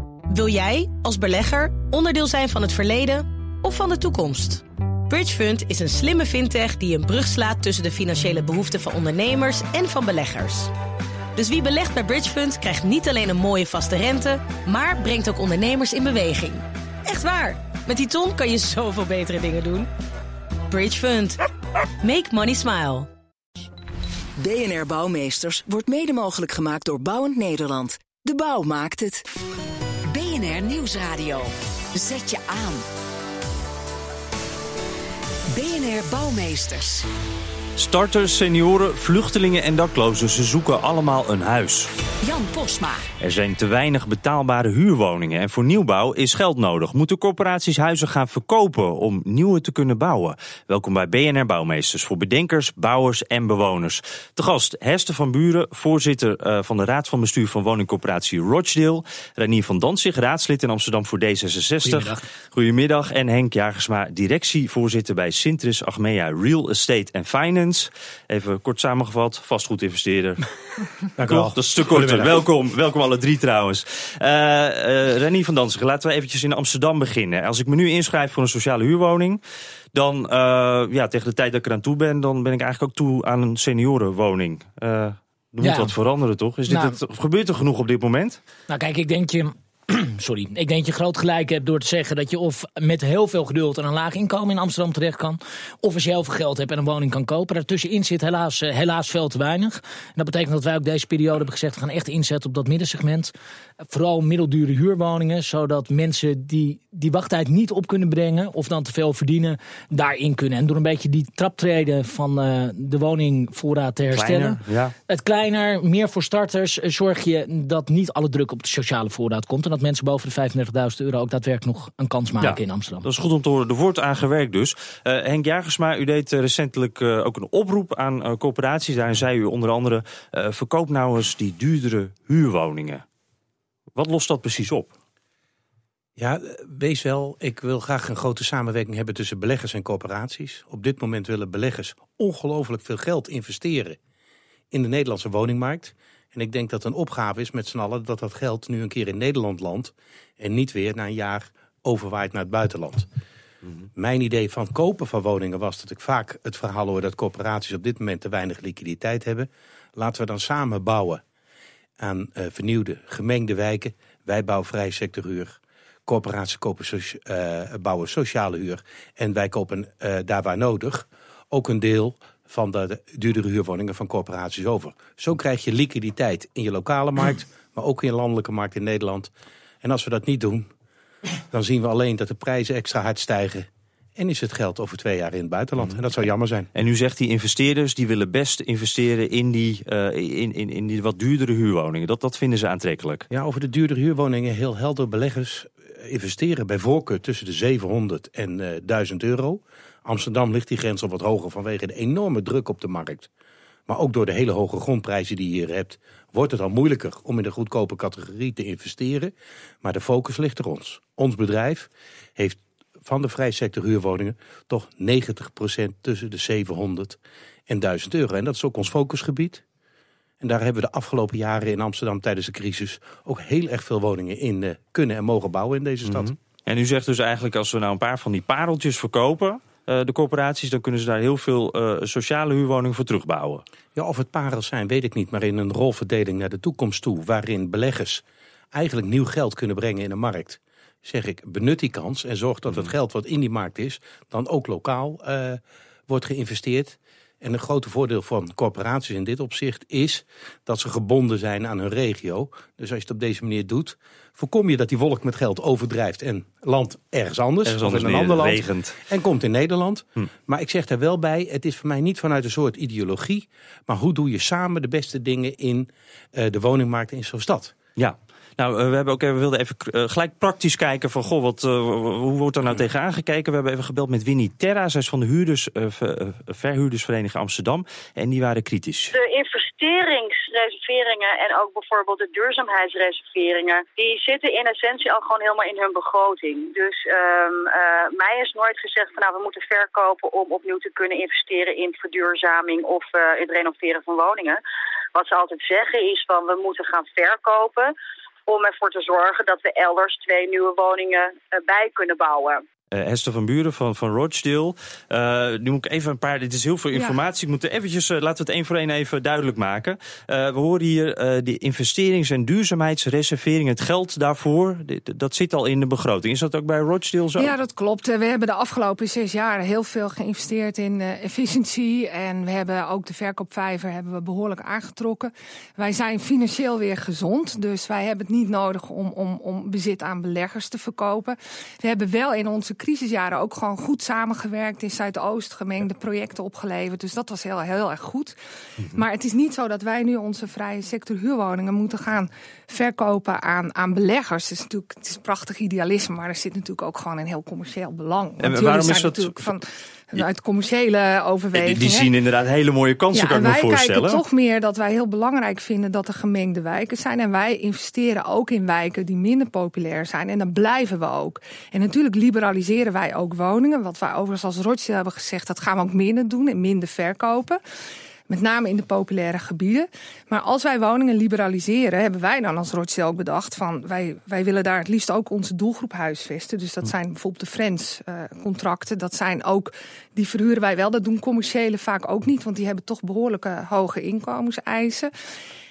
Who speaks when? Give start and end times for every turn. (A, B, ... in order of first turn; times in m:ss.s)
0:00.3-0:10.7 A
0:11.4-0:19.9 A
0:20.7-0:21.4 A
0:22.0-0:23.1 A
0:24.4-0:29.2 B
0:30.1-0:32.8 B
0:35.5-0:37.0 B
0:37.8-0:41.9 C
0:42.3-0:43.0 B
0:43.2-1:10.4 C
1:01.8-1:02.2 D
1:11.2-1:12.4 E
1:11.2-1:19.4 C
1:19.9-1:28.4 C
1:25.6-1:26.0 D
1:26.7-1:27.0 D
1:28.7-1:43.3 D
1:43.9-2:03.1 D
1:54.1-1:54.9 C
2:02.4-2:13.0 C
2:13.9-2:14.9 C
2:16.2-2:24.0 E
2:24.7-2:33.1 E
2:33.9-2:41.2 E
2:42.0-2:59.3 E
2:59.8-3:00.7 E
3:01.5-3:06.7 E
3:06.7-3:13.2 C
3:13.3-3:23.3 E
3:23.9-3:39.6 E
3:40.4-3:46.3 E
3:46.1-3:53.6 C
3:53.9-3:58.2 E
3:58.7-4:27.7 E
4:17.6-4:19.0 C
4:28.0-4:39.2 C
4:39.1-4:54.6 F
4:55.1-4:57.9 F
4:58.4-5:02.6 F
5:02.9-5:17.6 C
5:06.9-5:07.2 G
5:17.4-5:38.4 G
5:38.9-5:52.1 G
5:48.4-5:49.5 C
5:51.5-5:54.2 C
5:53.1-6:07.6 G
6:08.3-6:25.1 G